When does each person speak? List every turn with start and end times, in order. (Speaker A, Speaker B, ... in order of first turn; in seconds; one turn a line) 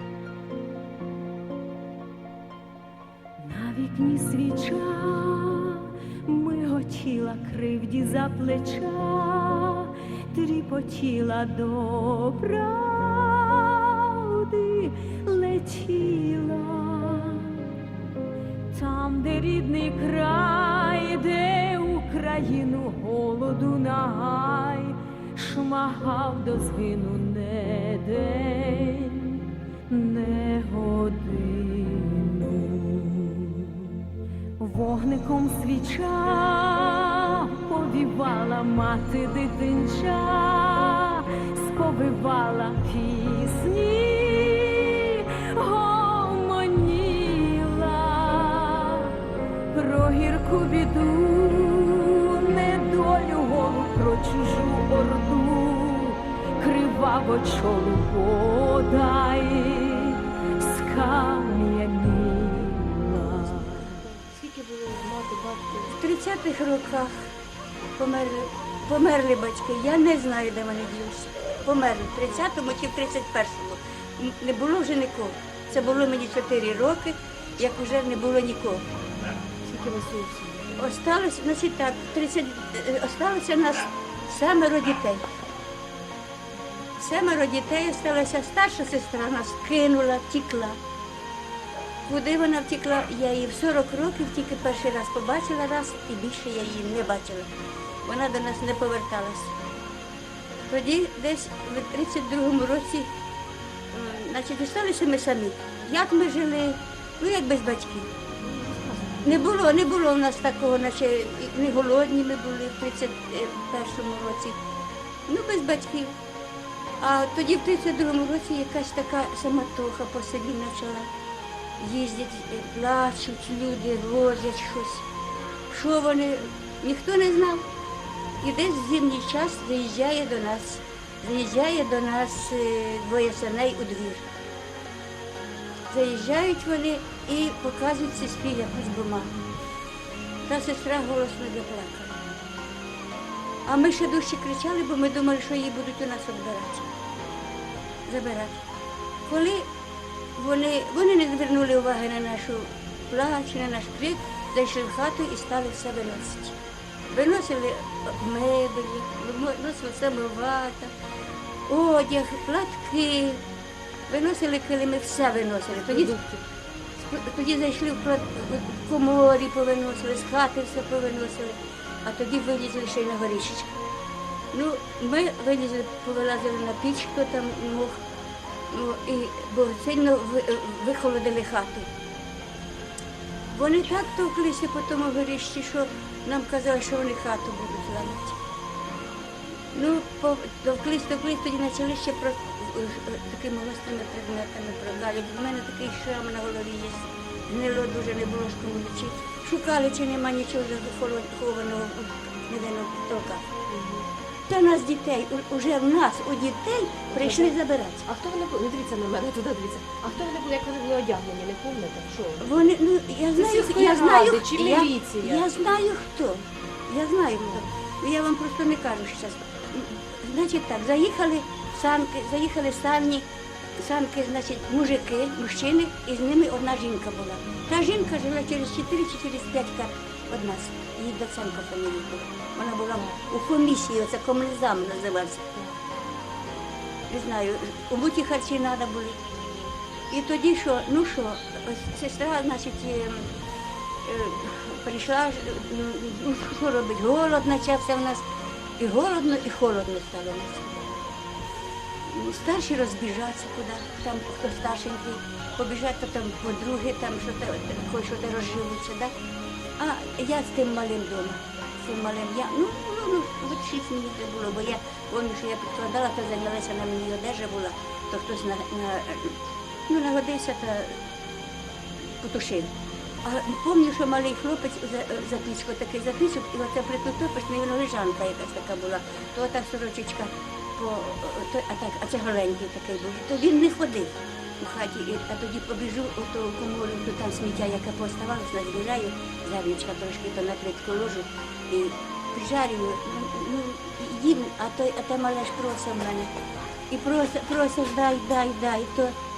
Speaker A: 3.4-17.7
Speaker A: 18.7-33.9
Speaker A: 34.6-49.2
Speaker A: 49.7-64.0
Speaker B: 64.0-65.9
Speaker C: 65.8-67.2
Speaker C: 68.0-78.8
Speaker B: 79.7-80.8
Speaker C: 80.8-85.2
Speaker C: 87.0-90.8
Speaker C: 92.1-97.5
Speaker C: 98.0-99.5
Speaker C: 100.7-103.1
Speaker C: 103.9-108.1
Speaker B: 108.4-109.4
Speaker C: 109.2-114.6
Speaker C: 115.3-116.1
Speaker C: 117.0-121.1
Speaker C: 121.8-125.0
Speaker C: 125.7-127.6
Speaker C: 128.4-134.3
Speaker C: 135.9-139.3
Speaker C: 140.5-142.2
Speaker C: 143.7-146.9
Speaker C: 148.1-148.6
Speaker C: 149.3-149.7
Speaker C: 150.4-156.6
Speaker C: 157.1-160.9
Speaker C: 161.7-163.4
Speaker C: 164.1-166.2
Speaker B: 166.0-166.4
Speaker C: 167.0-173.7
Speaker C: 174.5-178.0
Speaker C: 178.7-181.9
Speaker C: 183.5-188.4
Speaker C: 189.7-203.5
Speaker B: 203.7-204.1
Speaker C: 204.5-208.1
Speaker B: 207.2-212.5
Speaker C: 212.4-223.2
Speaker B: 213.3-215.5
Speaker C: 223.8-235.5
Speaker B: 235.6-235.8
Speaker C: 237.1-239.2
Speaker B: 239.4-239.8
Speaker C: 240.1-243.3
Speaker C: 244.1-248.2
Speaker C: 248.8-251.0
Speaker C: 252.1-259.1
Speaker C: 259.8-269.4
Speaker C: 269.9-271.0
Speaker C: 272.2-272.7
Speaker C: 273.2-296.3
Speaker C: 296.9-299.1